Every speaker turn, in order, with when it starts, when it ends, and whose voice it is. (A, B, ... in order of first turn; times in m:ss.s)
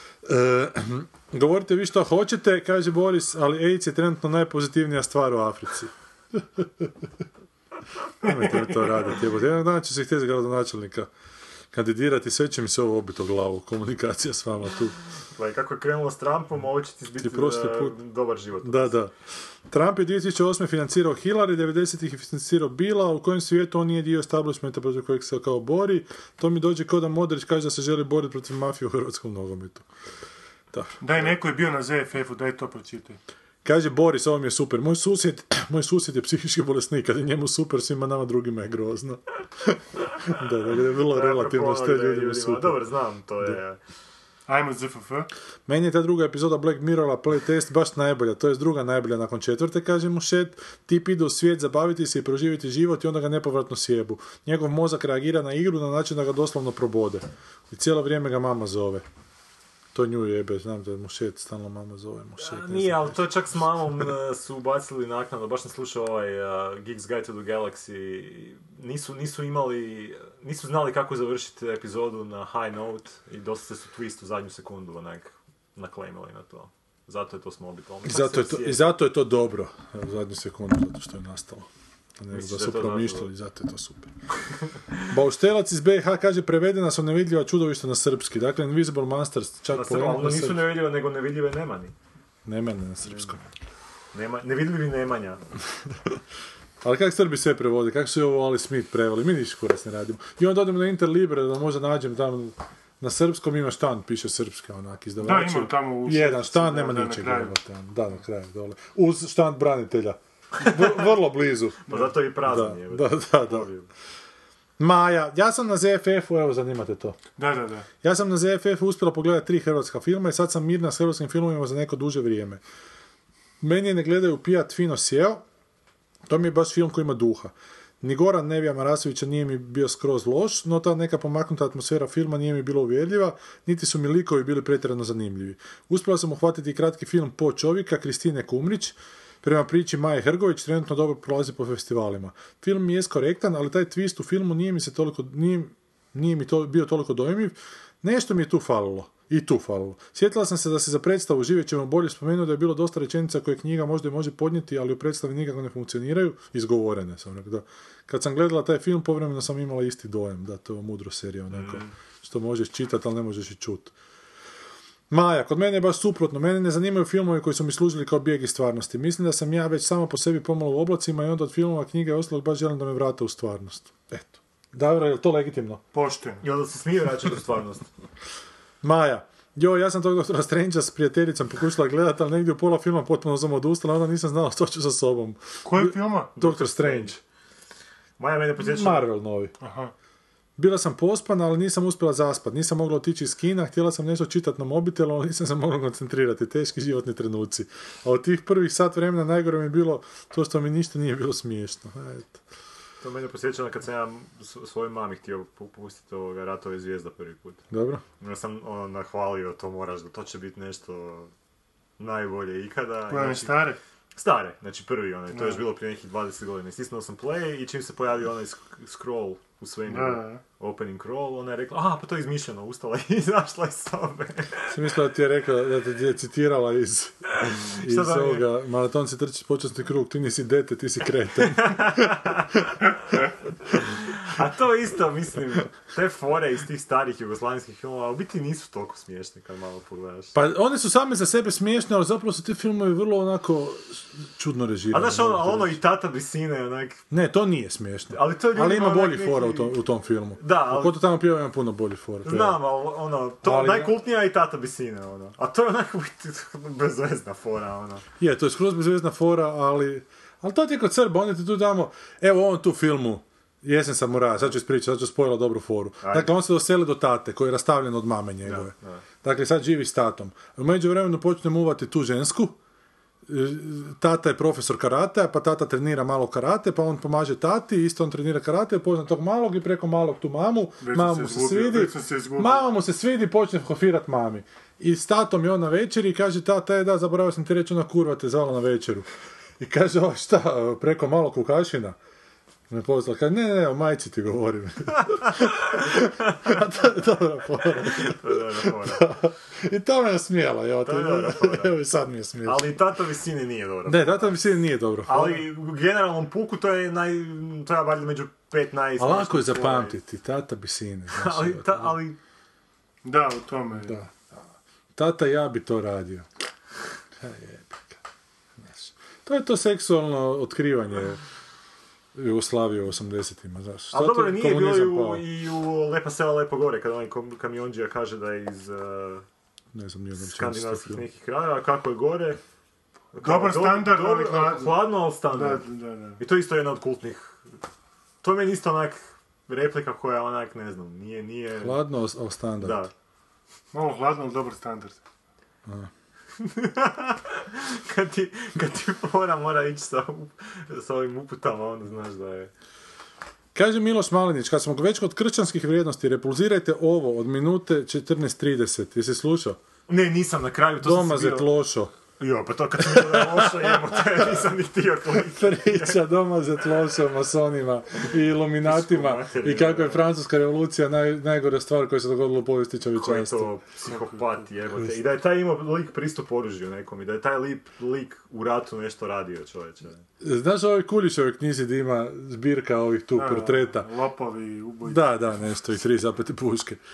0:00.2-0:06.9 A
0:08.2-0:11.1 A
0:11.7-0:15.0 A
0:15.3-0:19.0 B
0:17.2-0:18.0 A
0:18.6-0:19.1 A
0:19.7-0:29.8 A
0:30.7-0:31.0 A
0:31.0-0:33.2 C
0:33.6-0:42.8 A
0:41.1-0:43.8 B
0:44.5-0:45.3 C
0:45.6-0:59.0 A
0:59.9-1:03.2 A
1:02.4-1:18.8 B
1:18.0-1:24.1 A
1:22.3-1:23.3 B
1:25.1-1:30.7 A
1:29.7-1:31.9 B
1:32.4-1:33.4 A
1:33.1-1:33.3 B
1:34.1-1:35.4 B
1:36.8-1:53.7 A
1:45.2-1:47.5 C
1:51.9-1:53.9 B
1:51.9-1:52.1 C
1:54.8-1:57.2 A
1:57.4-1:57.9 C
1:58.0-2:02.6 A
2:03.6-2:05.4 A
2:06.3-2:43.9 A
2:41.5-2:41.9 B
2:45.1-2:55.8 A
2:55.9-2:56.4 C
2:56.4-2:57.9 B
2:58.8-3:07.2 A
3:05.6-3:06.3 C
3:06.4-3:07.2 B
3:08.2-3:09.1 B
3:08.6-3:09.5 A
3:09.6-3:09.9 C
3:10.6-3:22.4 A
3:23.0-3:27.6 B
3:27.7-3:28.0 A
3:28.2-3:31.3 B
3:32.0-3:44.7 B
3:33.1-3:33.8 C
3:35.3-3:35.6 C
3:39.9-3:40.4 C
3:44.7-3:52.2 A
3:47.4-3:48.5 B
3:51.4-3:52.7 B
3:53.7-4:00.4 B
4:00.3-4:05.8 A
4:04.9-4:07.0 B
4:07.1-4:12.6 A
4:08.1-4:09.8 B
4:10.4-4:11.0 B
4:12.2-4:18.0 B
4:13.4-4:14.0 A
4:18.2-4:32.6 A
4:26.0-4:26.3 B
4:28.4-4:29.0 B
4:33.3-4:49.1 A
4:40.8-4:42.6 C
4:49.6-4:52.0 A
4:52.7-5:02.7 A
4:57.8-4:59.1 B
5:00.8-5:01.8 B
5:02.4-5:04.5 B
5:03.9-5:05.4 A
5:05.0-5:10.0 B
5:09.0-5:12.0 A
5:11.1-5:12.2 B
5:13.0-5:14.0 C
5:13.8-5:14.4 A
5:14.9-5:16.3 A
5:17.2-5:18.0 A
5:18.6-5:21.2 A
5:22.1-5:25.2 A
5:23.9-5:29.2 B
5:29.7-5:31.0 A
5:30.2-5:32.4 B
5:33.1-5:35.6 B
5:33.2-5:36.2 C
5:36.2-5:37.4 B
5:38.2-5:41.8 B
5:41.6-5:42.8 A
5:42.6-5:42.9 B
5:43.7-5:45.0 C
5:46.4-5:52.5 B
5:53.5-5:59.6 A
5:59.9-6:01.5 B
6:00.8-6:01.9 A
6:02.2-6:06.0 B
6:02.8-6:04.4 A
6:05.1-6:13.5 A
6:08.6-6:10.0 B
6:13.0-6:20.0 B
6:13.9-6:14.2 C
6:20.2-6:23.9 A
6:23.1-6:25.2 C
6:24.8-6:26.8 A